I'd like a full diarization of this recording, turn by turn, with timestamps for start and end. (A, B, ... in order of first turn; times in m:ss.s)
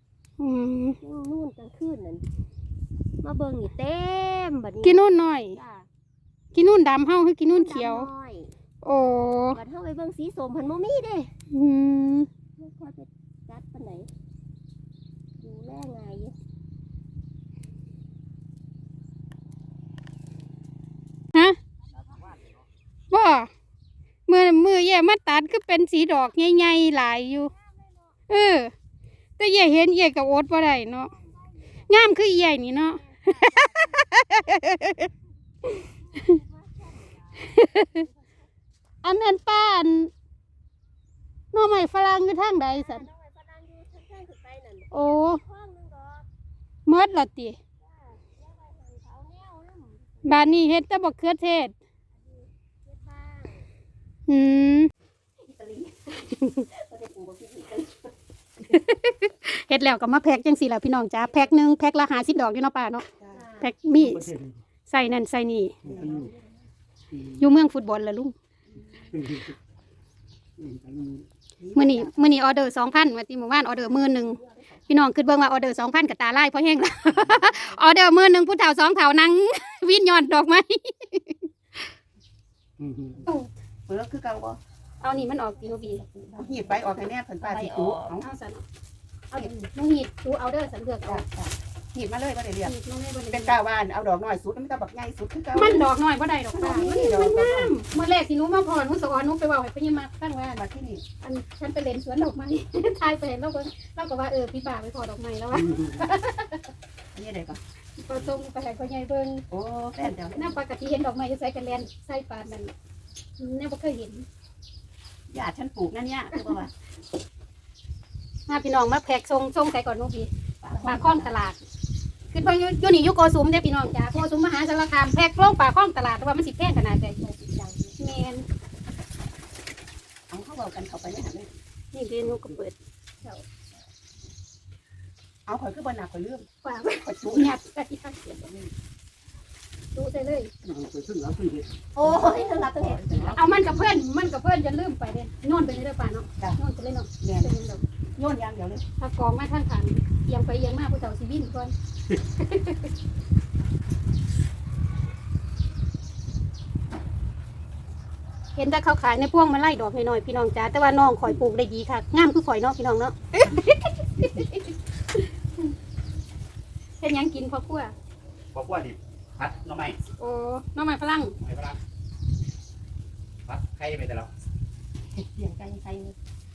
0:00.4-0:01.0 A
0:01.0-0:02.2 B
0:03.2-0:05.9 B
0:04.8-0:05.6 A
0:06.5-0:08.1 A
0:07.5-0:08.5 B
0:08.8-0:09.6 A
0:09.5-0:11.3 B
0:11.5-0:12.3 A
0:12.6-0:14.1 B
0:15.4-0:16.4 B
0:23.1-0:23.5 A
0:24.3-0:27.5 A
0:27.3-0:28.2 B
0:28.3-0:28.7 A
0:29.4-0:31.1 A
0:30.9-0:31.9 B
0:31.9-0:35.1 A
0:32.8-0:34.1 B
0:35.9-0:38.4 B
0:37.4-0:38.0 A
0:39.0-0:40.1 A
0:41.5-0:43.1 A
0:42.7-0:46.3 B
0:44.9-0:45.4 A
0:46.9-0:47.6 A
0:47.8-0:50.4 B
0:50.2-0:51.7 A
0:52.1-0:53.7 B
0:54.3-0:54.9 A
0:55.4-0:58.1 B
0:58.7-1:03.1 A
1:01.3-1:01.6 B
1:03.3-1:03.7 B
1:03.6-1:05.9 A
1:05.8-1:06.7 B
1:05.9-1:06.2 C
1:07.2-1:08.3 A
1:08.8-1:09.3 B
1:10.6-1:12.3 C
1:11.7-1:21.9 A
1:13.8-1:15.0 B
1:22.8-1:23.2 C
1:23.9-1:24.6 C
1:25.0-1:26.0 A
1:25.6-1:28.1 B
1:26.3-1:28.3 C
1:27.4-1:28.6 A
1:29.3-1:31.2 A
1:31.0-1:32.8 C
1:32.6-1:33.6 A
1:33.3-1:35.9 C
1:35.5-1:40.6 A
1:36.5-1:37.8 C
1:40.6-1:41.0 C
1:41.2-1:46.6 A
1:47.1-1:47.6 C
1:48.0-1:49.5 A
1:49.5-1:50.5 C
1:50.0-1:52.7 A
1:53.4-1:54.3 A
1:55.3-1:56.7 C
1:58.5-2:01.6 A
2:00.6-2:01.3 C
2:02.3-2:07.2 A
2:07.3-2:07.9 B
2:08.0-2:08.4 A
2:10.3-2:11.5 C
2:11.9-2:12.8 A
2:15.5-2:16.5 C
2:16.6-2:18.5 A
2:17.0-2:17.6 C
2:20.0-2:20.5 A
2:20.6-2:23.4 C
2:22.0-2:23.4 B
2:23.4-2:27.8 A
2:27.2-2:27.5 C
2:28.2-2:28.8 C
2:29.0-2:32.9 A
2:38.6-2:45.2 A
2:47.0-2:47.9 A
2:48.6-2:49.8 D
2:49.4-2:50.0 C
2:50.2-2:51.4 A
2:53.5-2:54.2 D
2:53.6-2:54.3 C
2:55.4-2:56.0 C
2:55.4-2:56.1 B